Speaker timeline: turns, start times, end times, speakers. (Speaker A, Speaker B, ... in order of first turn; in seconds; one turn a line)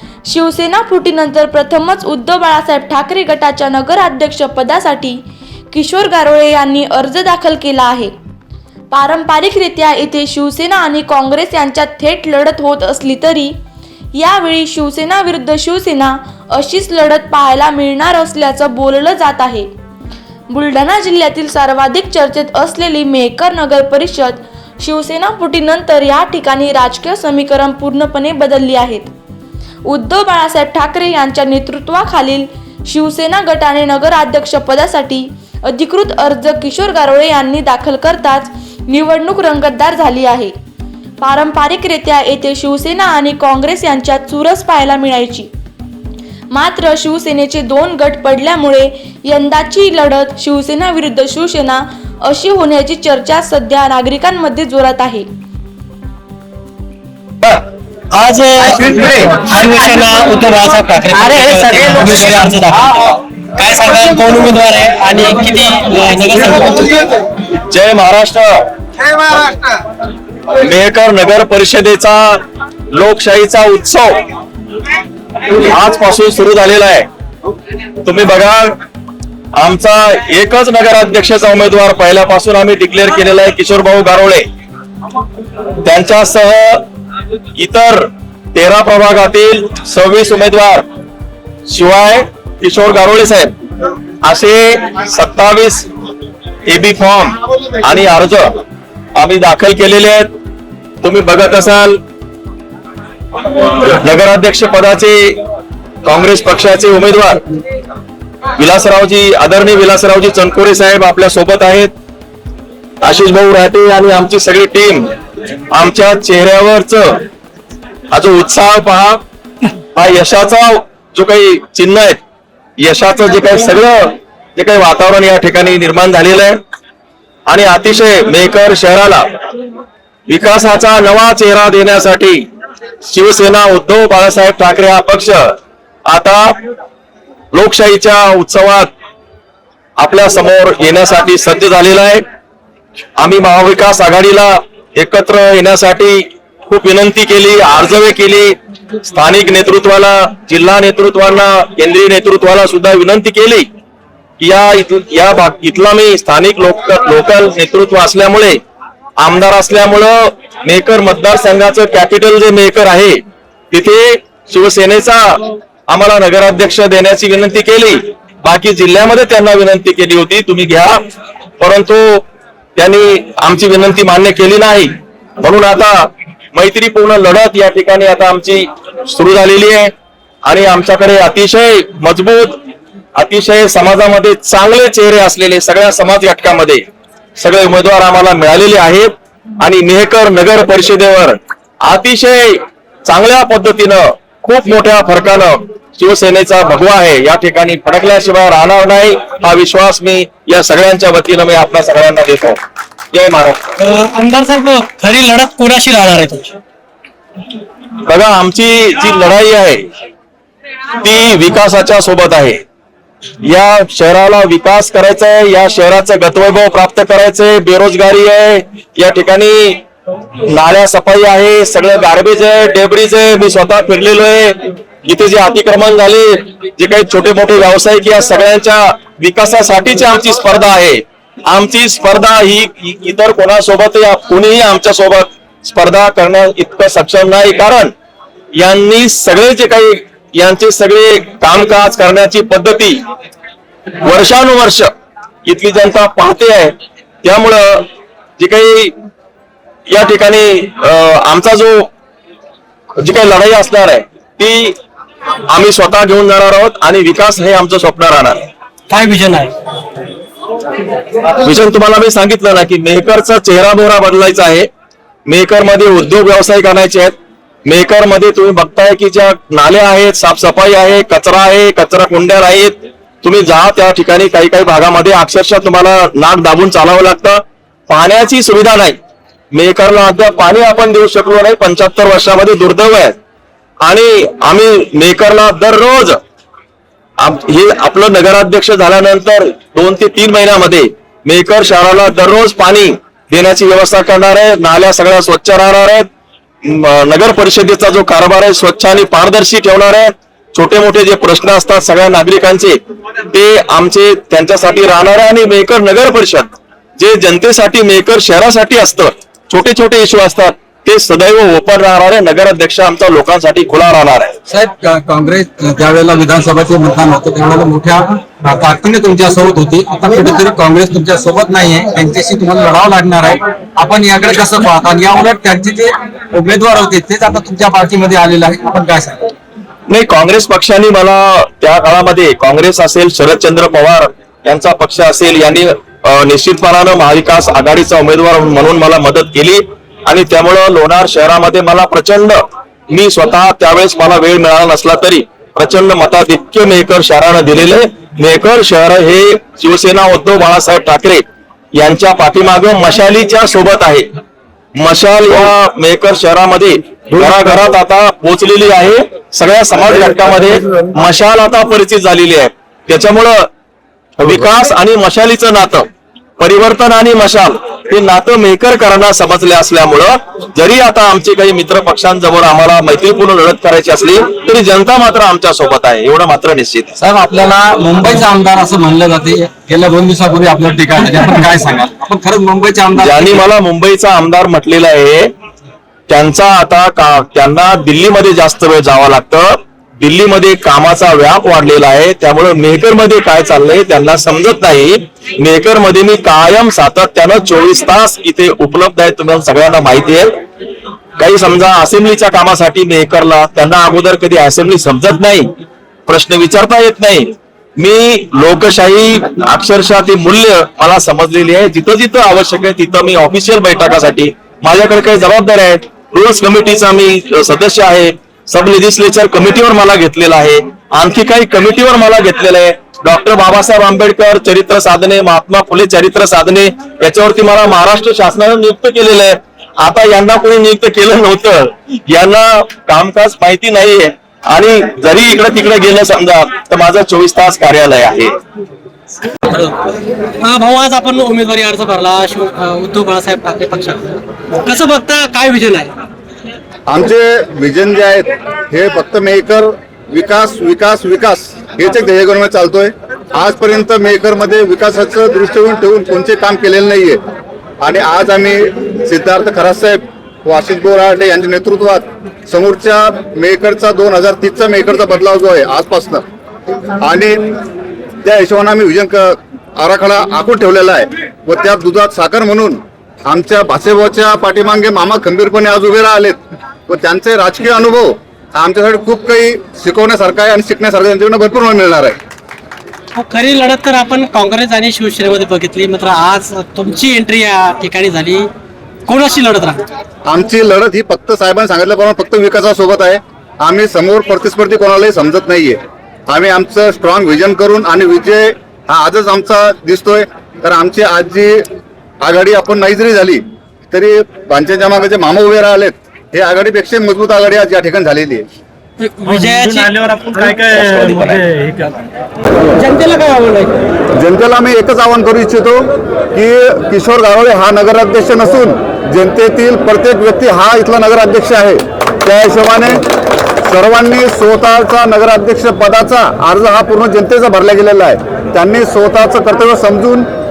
Speaker A: 0.3-8.1
Speaker A: 8.9-13.6
Speaker A: 14.1-19.7
Speaker A: 20.5-29.1
Speaker A: 29.9-40.5
Speaker A: 41.2-45.5
Speaker A: 46.5-55.3
Speaker B: 58.1-67.1
Speaker C: 61.5-61.8
Speaker C: 67.7-68.7
Speaker C: 70.6-72.4
Speaker C: 72.9-74.2
Speaker C: 75.5-77.1
Speaker C: 78.0-78.8
Speaker C: 79.6-84.4
Speaker C: 85.8-86.9
Speaker C: 87.6-90.8
Speaker C: 91.7-93.5
Speaker C: 94.2-95.9
Speaker C: 96.7-98.6
Speaker C: 99.1-100.3
Speaker C: 101.0-102.0
Speaker C: 103.5-105.4
Speaker C: 106.0-107.4
Speaker C: 108.6-111.9
Speaker C: 113.0-115.1
Speaker C: 115.7-117.3
Speaker C: 118.1-119.2
Speaker C: 119.9-122.2
Speaker C: 122.8-126.6
Speaker C: 127.5-129.3
Speaker C: 130.3-132.4
Speaker C: 133.0-135.6
Speaker C: 136.1-136.6
Speaker C: 137.5-138.9
Speaker C: 140.0-142.2
Speaker C: 143.2-153.7
Speaker C: 154.4-158.6
Speaker C: 159.2-171.0
Speaker C: 171.6-172.2
Speaker C: 172.8-179.9
Speaker C: 180.4-182.6
Speaker C: 183.1-186.8
Speaker C: 187.4-202.6
Speaker C: 203.1-203.6
Speaker B: 203.8-206.6
Speaker C: 208.1-209.9
Speaker C: 211.0-212.6
Speaker C: 213.4-219.8
Speaker C: 220.5-237.9
Speaker C: 238.6-243.0
Speaker C: 244.0-244.9
Speaker C: 245.4-248.9
Speaker C: 249.9-251.9
Speaker C: 253.0-254.8
Speaker C: 255.5-258.5
Speaker B: 258.9-259.5
Speaker C: 261.3-264.7
Speaker C: 265.3-267.1
Speaker C: 267.6-279.0
Speaker C: 279.5-283.1
Speaker C: 283.9-286.2
Speaker C: 287.2-296.1
Speaker C: 296.6-302.8
Speaker C: 303.3-314.3
Speaker D: 314.5-329.3
Speaker C: 329.9-351.2
Speaker C: 351.8-354.1
Speaker C: 354.8-363.5
Speaker C: 364.2-365.9
Speaker C: 366.4-377.0
Speaker D: 377.0-383.4
Speaker C: 383.0-385.3
Speaker C: 386.1-400.4
Speaker C: 401.2-405.5
Speaker C: 406.1-438.3
Speaker B: 439.5-439.8
Speaker B: 440.4-445.9
Speaker E: 446.9-457.2
Speaker E: 457.8-466.2
Speaker E: 467.0-467.4
Speaker E: 468.2-482.2
Speaker B: 483.1-488.5
Speaker B: 489.1-489.8
Speaker E: 490.3-501.6
Speaker E: 502.2-508.4
Speaker B: 509.0-511.0
Speaker C: 510.7-511.4
Speaker B: 511.6-511.9
Speaker B: 512.7-513.7
Speaker E: 514.2-523.0
Speaker E: 523.6-530.3